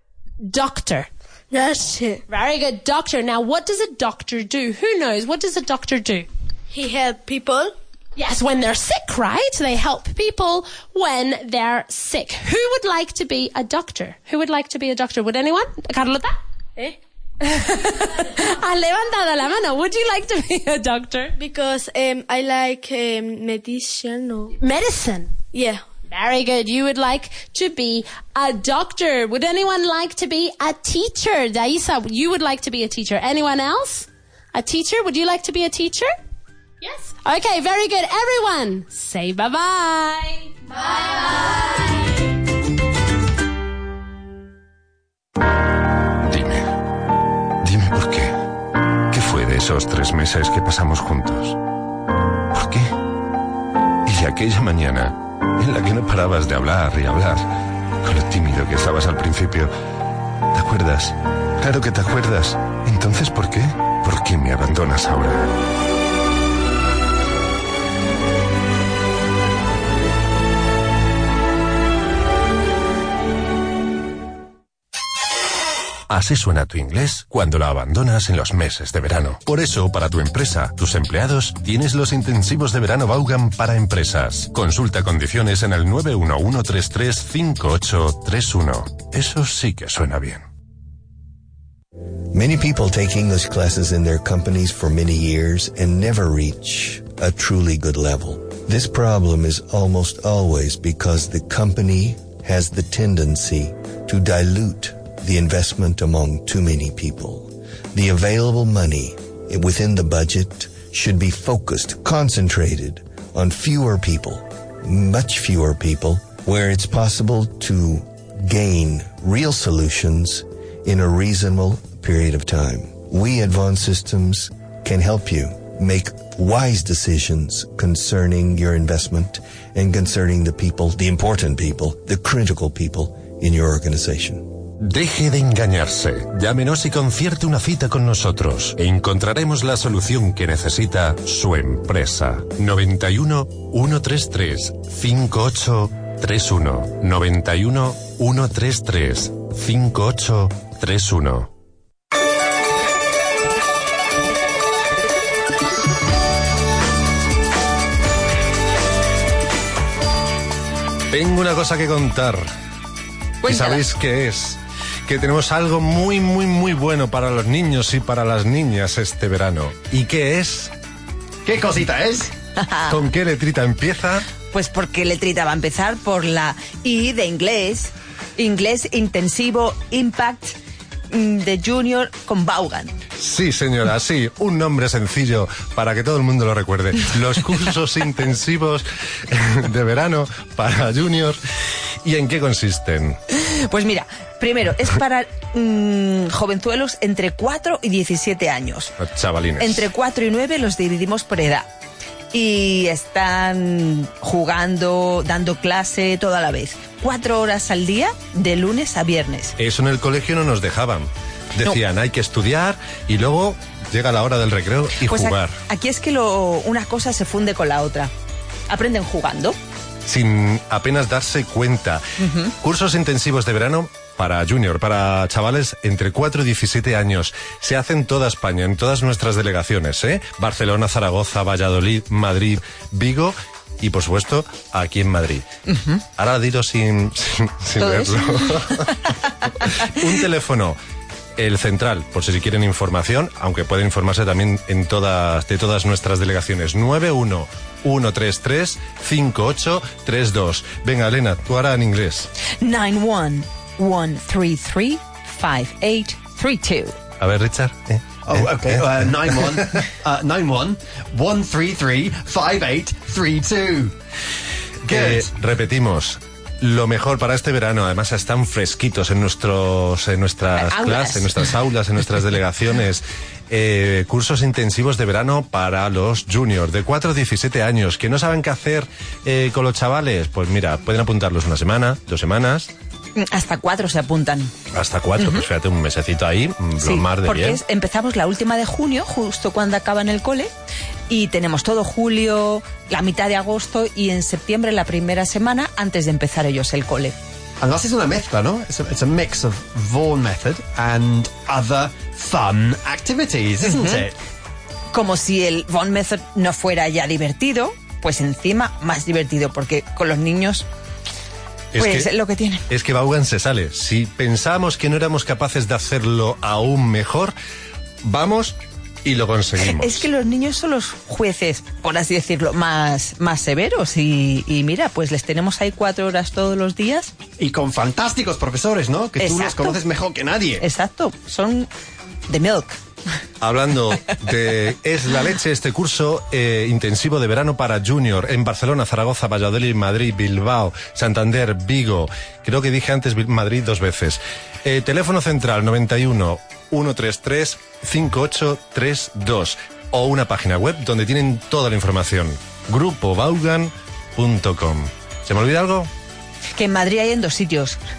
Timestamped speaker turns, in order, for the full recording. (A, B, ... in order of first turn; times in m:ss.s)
0:00.4-0:01.1 A
0:02.3-0:06.3 A
0:06.7-0:07.7 B
0:08.2-0:16.4 A
0:17.4-0:21.4 A
0:21.4-0:24.6 B
0:24.6-0:25.3 A
0:25.5-0:25.8 B
0:26.1-0:36.1 A
0:36.8-0:42.1 A
0:46.2-0:46.8 C
0:47.6-0:48.4 C
0:49.1-0:51.6 C
0:52.5-0:52.9 C
0:54.0-0:57.5 C
0:58.0-0:59.7 C
1:00.5-1:05.6 C
1:16.1-1:30.4 C
1:32.3-2:14.5 D
2:14.8-2:31.5 C
2:41.1-2:42.5 C
2:43.4-2:43.8 E
2:43.4-2:50.7 C
2:51.4-2:52.3 F
2:52.6-2:53.0 E
2:52.9-2:54.2 C
2:54.5-3:00.6 E
3:01.1-3:02.9 E
3:03.2-3:11.4 C
3:12.0-3:13.2 C
3:13.3-3:18.9 E
3:19.0-3:19.8 C
3:19.6-3:21.7 E
3:22.3-3:29.5 E
3:29.6-3:35.6 C
3:35.0-3:38.1 E
3:38.7-3:39.6 E
3:40.0-3:42.1 C
3:42.2-3:42.5 E
3:42.6-3:55.5 C
3:55.7-3:56.0 E
3:56.2-3:59.0 C
3:57.8-3:58.9 E
3:59.6-4:00.8 C
4:01.4-4:12.3 C
4:12.6-4:17.0 E
4:17.2-4:19.8 C
4:18.2-4:23.9 F
4:24.9-4:25.3 F
4:24.9-4:42.7 C
4:30.6-4:31.3 E
4:43.2-4:44.5 E
4:44.7-4:47.6 C
4:45.2-4:45.4 E
4:46.8-4:50.5 E
4:51.1-4:57.1 E
4:57.6-5:04.2 F
5:03.6-5:04.1 E
5:04.9-5:10.6 E
5:11.7-5:12.1 C
5:11.8-5:12.6 E
5:12.7-5:17.3 C
5:18.0-5:20.0 C
5:19.6-5:27.1 E
5:27.4-5:30.6 F
5:29.2-5:29.8 E
5:30.6-5:31.7 E
5:32.3-5:32.8 E
5:33.4-5:55.9 C
5:56.6-5:57.8 E